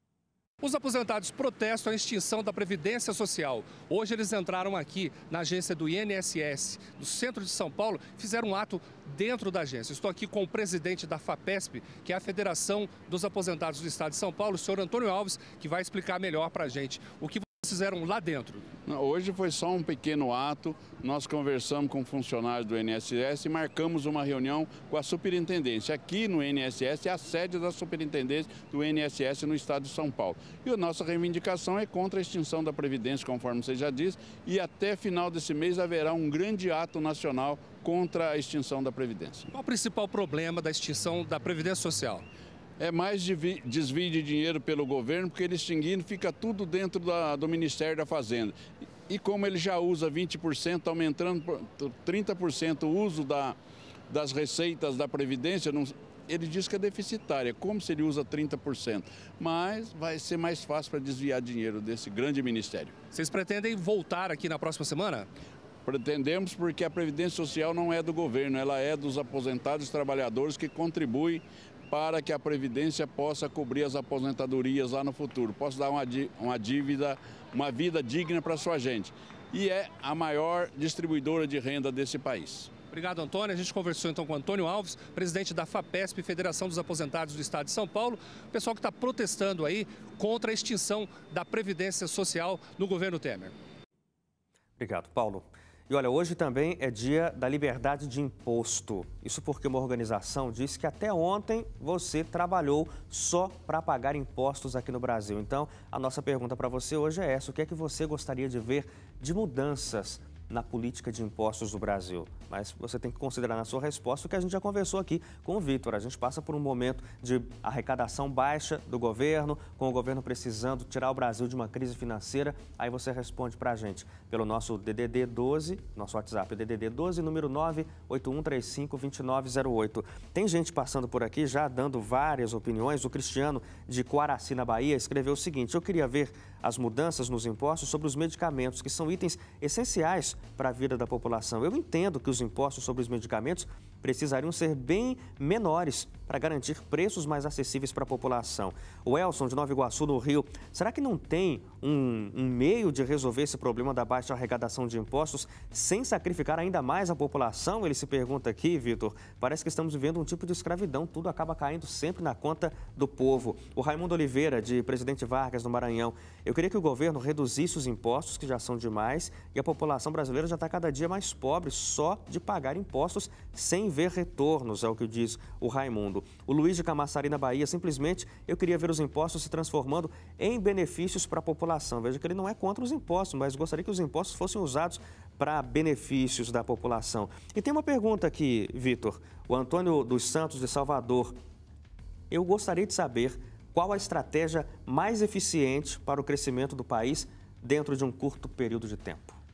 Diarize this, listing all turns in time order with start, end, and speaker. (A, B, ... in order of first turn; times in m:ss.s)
0:00.6-0:18.7 A
0:18.9-0:39.5 B
0:39.5-0:42.2 A
0:42.8-0:53.6 B
0:54.1-1:02.9 B
1:03.1-1:05.3 A
1:05.8-1:22.7 B
1:22.9-1:33.5 A
1:34.8-3:11.4 C
3:12.3-3:19.4 C